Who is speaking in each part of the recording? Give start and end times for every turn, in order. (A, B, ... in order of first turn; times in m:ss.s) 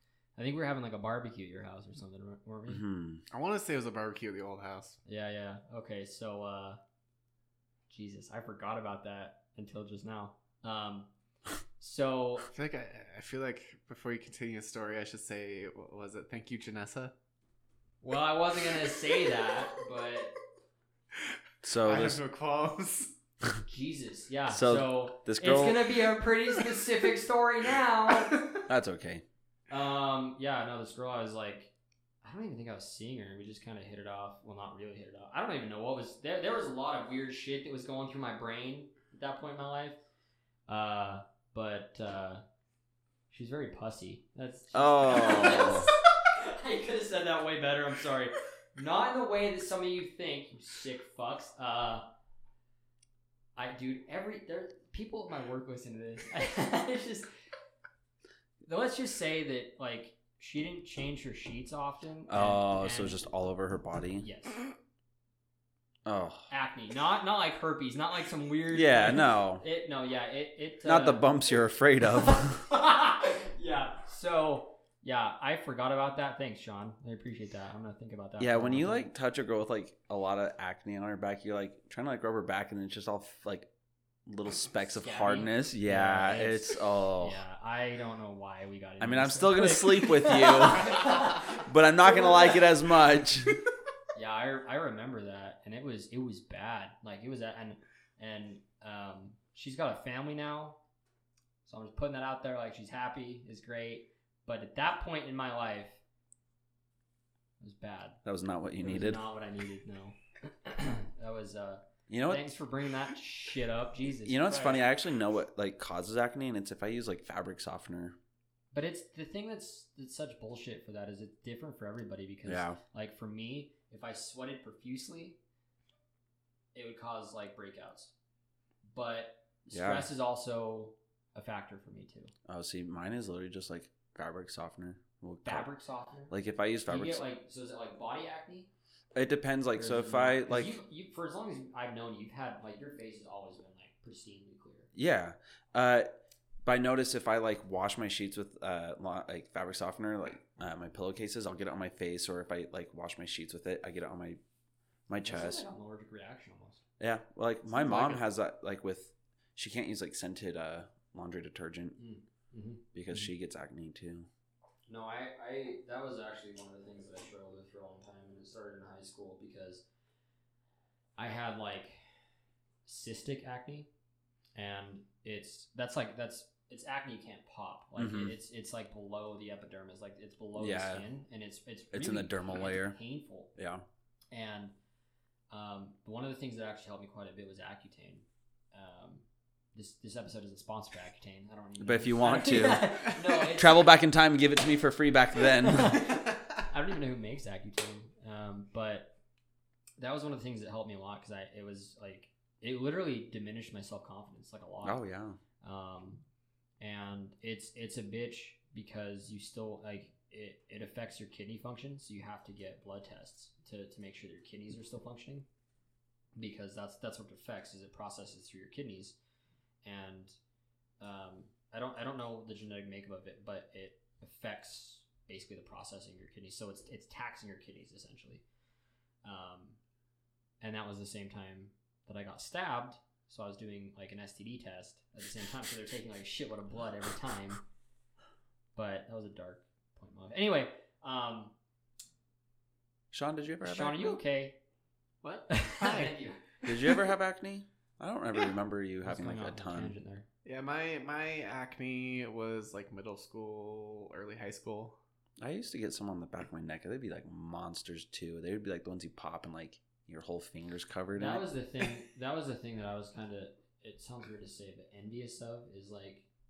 0:00.4-0:02.8 A
0:02.7-0:03.2 B
0:03.3-0:05.0 C
0:05.0-0:06.8 A
0:07.9-0:11.1 A
0:11.8-0:12.5 A
0:12.5-0:17.1 C
0:18.0-0:20.3 A
0:21.6-0:22.2 B
0:21.8-0:23.1 C
0:23.6-0:28.4 A
0:24.5-0:25.9 B
0:28.7-0:29.2 B
0:29.7-0:31.7 A
0:32.2-0:40.0 A
0:40.7-0:42.4 A
0:43.3-0:52.1 A
0:44.7-0:45.9 B
0:53.6-0:57.3 A
0:58.6-1:03.2 A
1:02.3-1:04.2 B
1:04.2-1:04.6 A
1:06.0-1:06.5 B
1:06.5-1:11.3 A
1:08.7-1:09.6 B
1:10.8-1:12.6 B
1:12.2-1:19.1 A
1:18.4-1:23.7 B
1:24.2-1:27.4 B
1:25.0-1:31.7 A
1:29.0-1:33.5 B
1:34.1-1:40.8 A
1:41.6-1:46.0 A
1:47.6-1:48.2 A
1:48.2-1:49.2 B
1:48.8-1:54.8 A
1:52.1-1:52.4 B
1:54.2-1:58.2 B
1:58.7-2:05.4 A
2:02.4-2:02.8 B
2:06.7-2:08.1 A
2:08.9-2:12.3 A
2:09.7-2:10.1 B
2:12.5-2:15.7 B
2:15.4-2:18.7 A
2:16.3-2:17.2 B
2:19.1-2:20.8 B
2:19.7-2:24.9 A
2:24.9-2:26.1 B
2:26.6-2:34.4 B
2:35.1-2:35.6 B
2:35.2-2:36.8 A
2:37.0-2:42.0 B
2:37.7-2:38.2 C
2:42.0-2:43.3 A
2:42.9-2:44.3 B
2:44.9-2:49.8 A
2:51.2-2:52.0 A
2:52.8-2:53.9 A
2:54.5-3:03.5 A
2:58.0-2:58.4 B
3:00.6-3:01.1 B
3:01.9-3:03.0 B
3:03.6-3:03.8 B
3:04.3-3:04.7 A
3:05.5-3:13.9 A
3:11.8-3:16.1 B
3:15.5-3:19.2 A
3:20.0-3:25.0 A
3:24.8-3:25.4 B
3:25.6-3:26.2 A
3:26.8-3:35.4 A
3:36.4-3:39.2 A
3:39.8-3:40.4 A
3:41.0-3:48.4 A
3:49.2-3:49.8 A
3:50.6-3:57.6 A
3:58.8-4:01.5 A
4:03.1-4:04.2 B
4:03.6-4:04.6 A
4:05.2-4:06.1 C
4:05.5-4:06.6 A
4:06.6-4:10.0 B
4:09.0-4:10.2 A
4:10.4-4:15.0 C
4:15.4-4:21.4 B
4:21.1-4:26.2 A